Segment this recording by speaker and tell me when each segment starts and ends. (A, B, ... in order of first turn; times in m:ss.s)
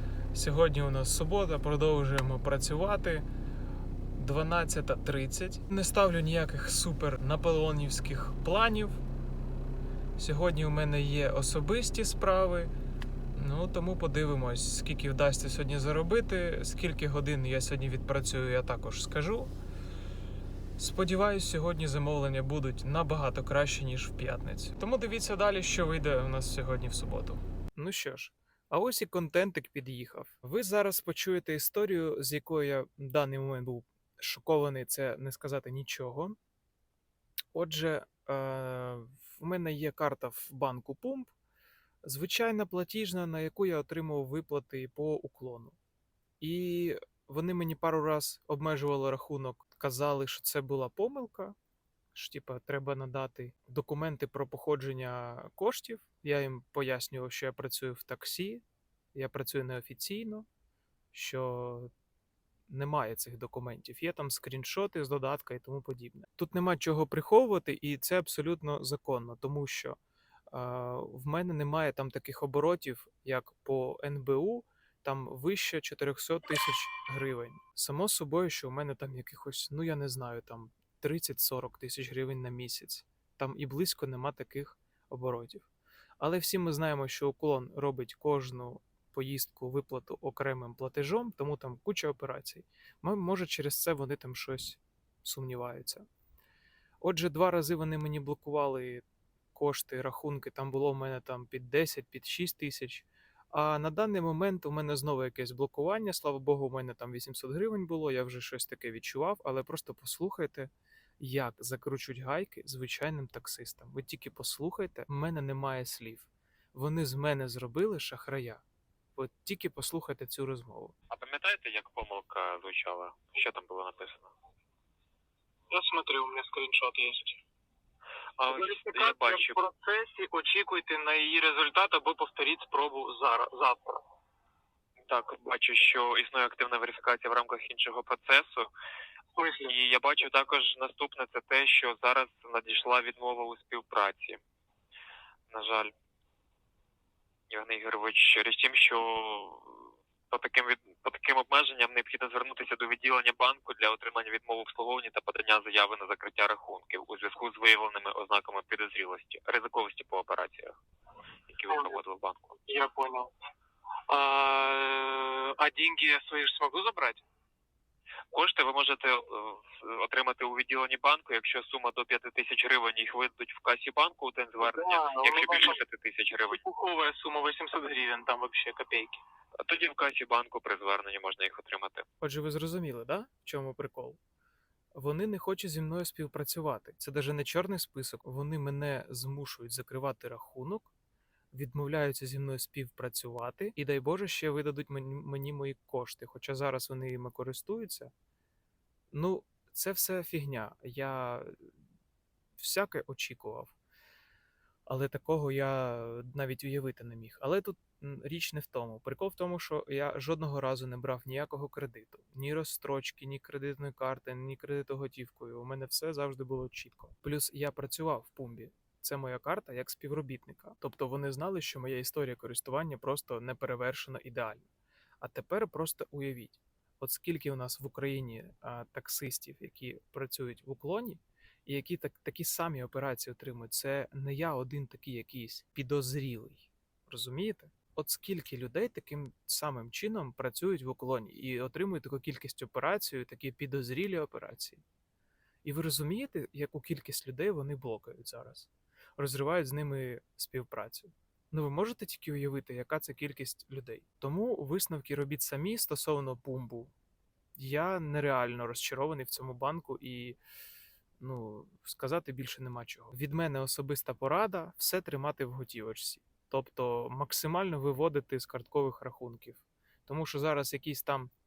0:00.3-0:03.3 A
0:04.1-0:09.0 A
0:10.2-0:12.7 A
0:13.3-0:19.5 A
0:20.8-0:36.4 A
0:37.5-0:41.3 A
0:42.0-0:45.8 A
0:46.4-0:51.6 A
0:52.1-1:00.5 A
1:01.1-1:01.9 A
1:02.7-1:10.0 A
1:10.5-1:25.7 A
1:26.2-1:36.1 A
1:37.0-1:58.6 A
1:59.2-2:01.0 A
2:01.1-2:04.3 B
2:05.7-2:07.4 C
2:08.4-2:09.6 B
2:08.5-2:14.0 C
2:15.1-2:18.7 B
2:19.3-2:19.8 C
2:19.6-2:24.4 B
2:25.5-2:25.9 B
2:27.5-2:40.8 B
2:41.5-2:42.6 B
2:41.7-2:41.9 C
2:42.7-2:43.3 C
2:44.1-2:47.2 C
2:48.3-2:56.6 B
2:54.7-2:55.8 C
2:56.5-2:59.2 C
2:59.6-3:02.0 B
3:02.2-3:04.2 A
3:04.9-3:10.9 A
3:11.5-3:18.1 A
3:19.1-3:21.5 A
3:22.6-3:23.8 A
3:24.8-3:44.7 A
3:45.2-4:04.8 A
4:05.6-4:16.9 A
4:17.6-4:20.4 A
4:21.2-4:31.3 A